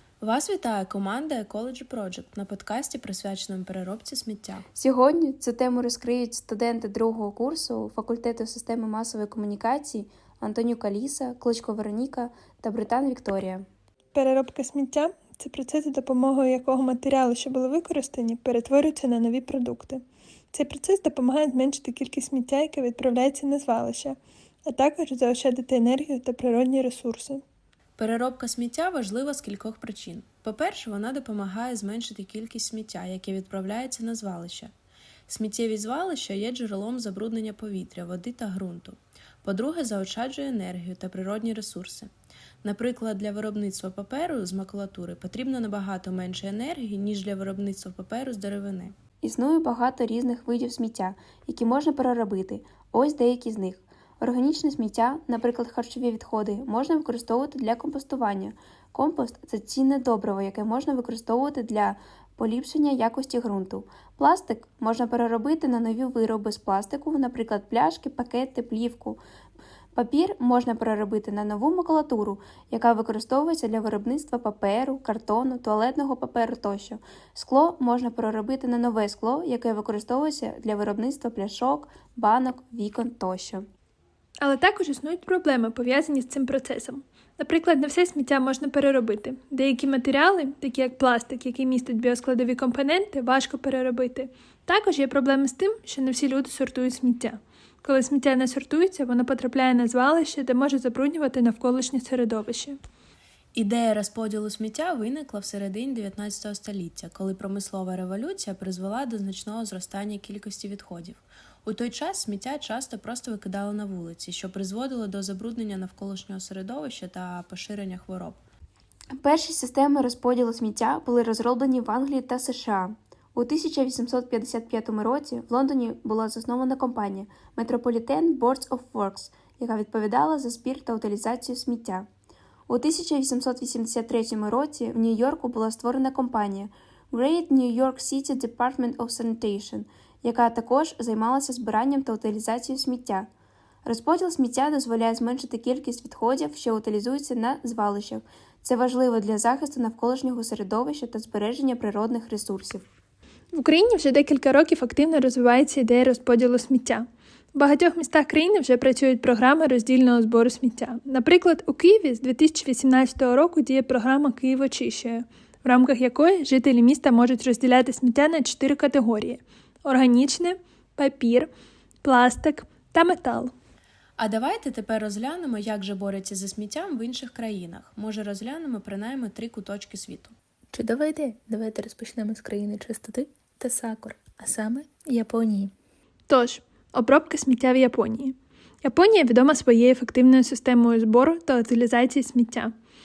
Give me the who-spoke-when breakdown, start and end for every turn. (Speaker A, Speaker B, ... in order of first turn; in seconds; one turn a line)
Speaker A: 0.2-4.6
Speaker B: 4.8-13.6
Speaker C: 14.2-27.4
Speaker A: 28.0-34.7
Speaker A: 35.3-42.1
Speaker A: 42.6-48.9
Speaker B: 49.2-69.2
Speaker B: 70.0-83.6
Speaker C: 84.4-102.8
Speaker A: 103.5-118.4
Speaker B: 119.2-132.1
Speaker B: 132.7-143.3
Speaker B: 143.8-152.8
Speaker C: 153.5-171.5
Speaker C: 172.0-173.5
Speaker A: 174.2-180.3
Speaker D: 180.8-185.7
Speaker C: 186.3-192.7